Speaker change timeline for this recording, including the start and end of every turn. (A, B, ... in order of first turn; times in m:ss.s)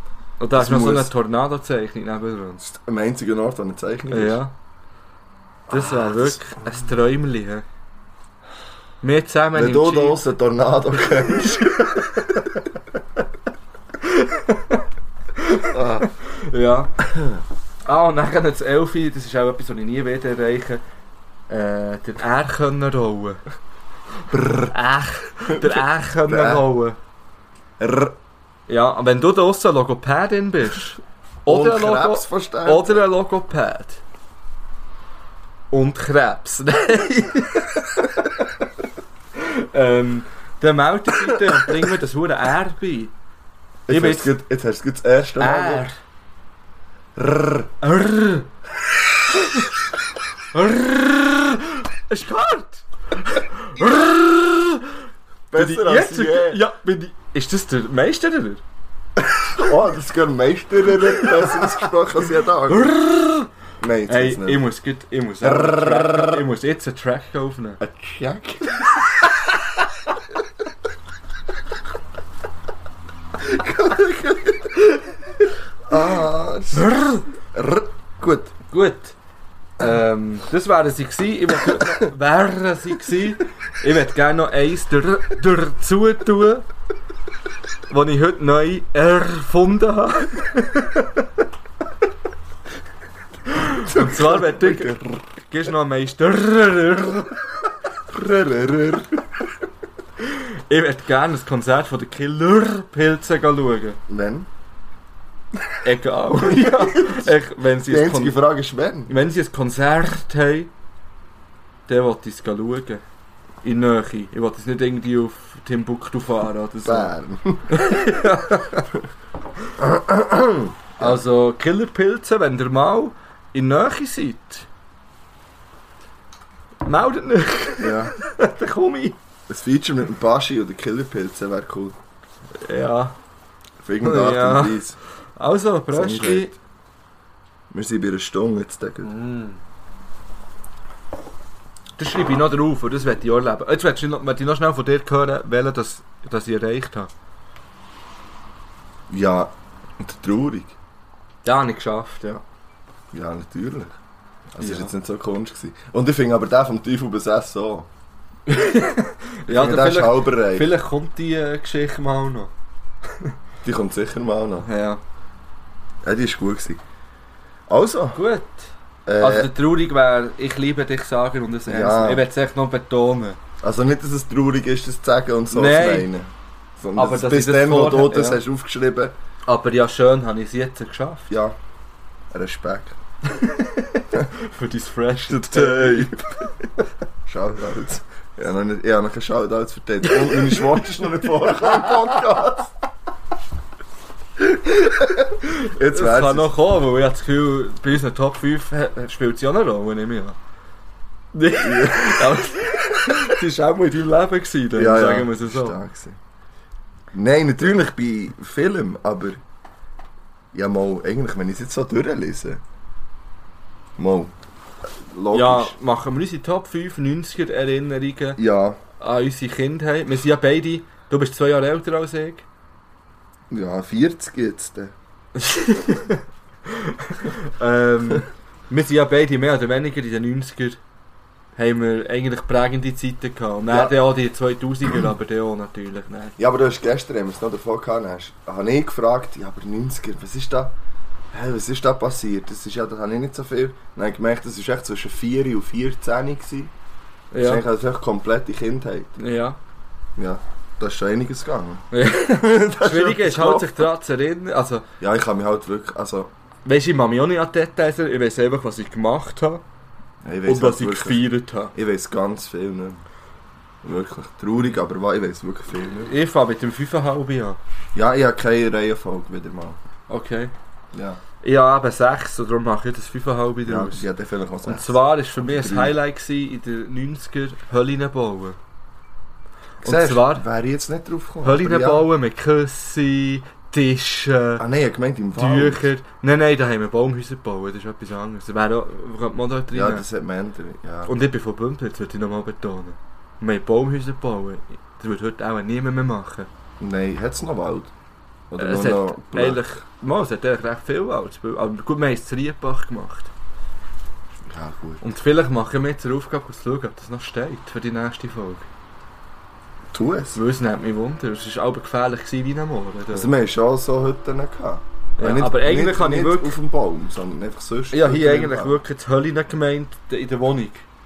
0:00.4-0:02.6 A
0:00.5-0:01.1 B
0:02.6-0:04.4 B
0:04.1-0:04.5 A
0:05.7-0:06.4 B
0:05.7-0:07.6 A
0:09.0-0:10.2 A
0:09.5-0:12.2 B
0:11.2-0:12.6 A
0:14.0-0:14.8 A
0:15.4-0:17.0 A
0:15.7-0:16.1 B
0:17.0-0:17.4 B
0:17.8-0:20.8 A
0:21.5-0:23.4 A
0:24.3-0:24.7 B
0:24.6-0:27.0 A
0:25.5-0:26.6 B
0:27.8-0:28.2 B
0:28.7-0:34.0 A
0:31.4-0:33.0 B
0:35.7-0:38.1 A
0:39.4-0:43.1 A
0:43.9-0:45.9 B
0:43.9-0:44.3 A
0:45.4-0:46.0 A
0:47.2-0:47.7 B
0:47.8-0:48.5 A
0:50.5-0:54.9 A
0:55.5-0:56.6 B
0:55.5-0:58.6 A
0:59.2-1:02.9 B
1:02.7-1:03.5 A
1:03.8-1:04.6 B
1:04.1-1:07.8 A
1:05.4-1:06.4 B
1:07.8-1:09.3 B
1:13.4-1:14.8 B
1:15.9-1:16.9 B
1:16.7-1:17.3 A
1:17.5-1:18.5 B
1:18.7-1:19.1 A
1:19.8-1:26.6 A
1:27.9-1:31.3 A
1:33.5-1:37.4 A
1:33.8-1:35.2 B
1:38.1-1:39.4 B
1:40.2-1:44.0 A
1:44.1-1:44.5 B
1:45.8-1:48.4 A
1:46.3-1:49.1 B
1:49.1-1:50.7 A
1:51.9-1:53.0 A
1:53.6-1:57.1 A
1:56.8-1:57.8 B
1:57.7-1:58.9 A
1:59.8-2:01.2 B
2:01.0-2:04.7 A
2:06.8-2:09.2 A
2:07.8-2:08.1 B
2:09.5-2:12.0 B
2:12.6-2:13.2 A
2:13.8-2:15.0 B
2:14.0-2:14.8 A
2:15.4-2:16.5 A
2:15.9-2:16.6 B
2:17.7-2:19.1 B
2:19.0-2:19.6 A
2:22.0-2:27.1 A
2:29.1-2:30.8 B
2:31.4-2:32.4 A
2:33.1-2:34.0 B
2:34.5-2:37.9 B
2:34.6-2:34.9 A
2:38.5-2:42.5 A
2:39.5-2:40.7 B
2:43.6-2:44.7 B
2:44.6-2:45.0 A
2:46.0-2:46.8 B
2:47.7-2:48.2 B
2:48.1-2:53.4 A
2:49.0-2:49.5 B
2:51.7-2:52.2 B
2:53.6-2:59.1 B
2:55.5-2:56.1 A
2:57.0-2:58.4 A
2:59.4-3:01.3 A
3:01.3-3:01.6 B
3:02.3-3:03.0 B
3:03.3-3:06.5 A
3:05.3-3:06.3 B
3:07.2-3:12.7 B
3:10.0-3:10.9 A
3:11.4-3:12.2 A
3:14.7-3:16.5 B
3:15.4-3:20.4 A
3:21.3-3:25.8 A
3:21.6-3:23.4 B
3:24.7-3:26.2 B
3:27.1-3:29.4 B
3:30.5-3:32.6 B
3:34.0-3:34.3 B
3:35.0-3:35.7 B
3:35.3-3:38.4 A
3:38.4-3:38.8 B
3:39.0-3:42.4 A
3:43.5-3:44.9 B
3:45.4-3:50.8 A
3:51.6-3:56.3 A
3:53.7-3:54.0 B
3:56.4-4:00.7 B
4:01.3-4:06.7 B
4:07.3-4:07.6 A
4:07.4-4:09.2 B
4:09.2-4:09.6 A
4:10.2-4:13.9 B
4:11.9-4:14.8 A
4:15.0-4:16.3 B
4:16.6-4:19.6 A
4:20.2-4:21.2 B
4:20.4-4:21.7 A
4:21.7-4:23.0 B
4:23.8-4:26.1 B
4:26.0-4:27.6 A
4:27.9-4:29.8 B
4:30.1-4:30.5 A
4:30.9-4:31.2 B
4:31.4-4:34.0 A
4:33.6-4:36.0 B
4:34.6-4:38.6 A
4:39.8-4:42.0 B
4:39.8-4:40.4 A
4:41.4-4:44.6 A
4:44.6-4:45.9 B
4:45.4-4:50.0 A
4:49.7-4:51.1 B
4:51.0-4:56.5 A
4:56.8-4:57.9 B
4:58.5-4:59.6 B
4:58.6-5:03.3 A
5:04.5-5:05.0 B
5:05.0-5:08.7 A
5:09.9-5:10.4 B
5:10.3-5:13.3 A
5:13.1-5:18.8 B
5:15.2-5:16.6 A
5:17.9-5:20.8 A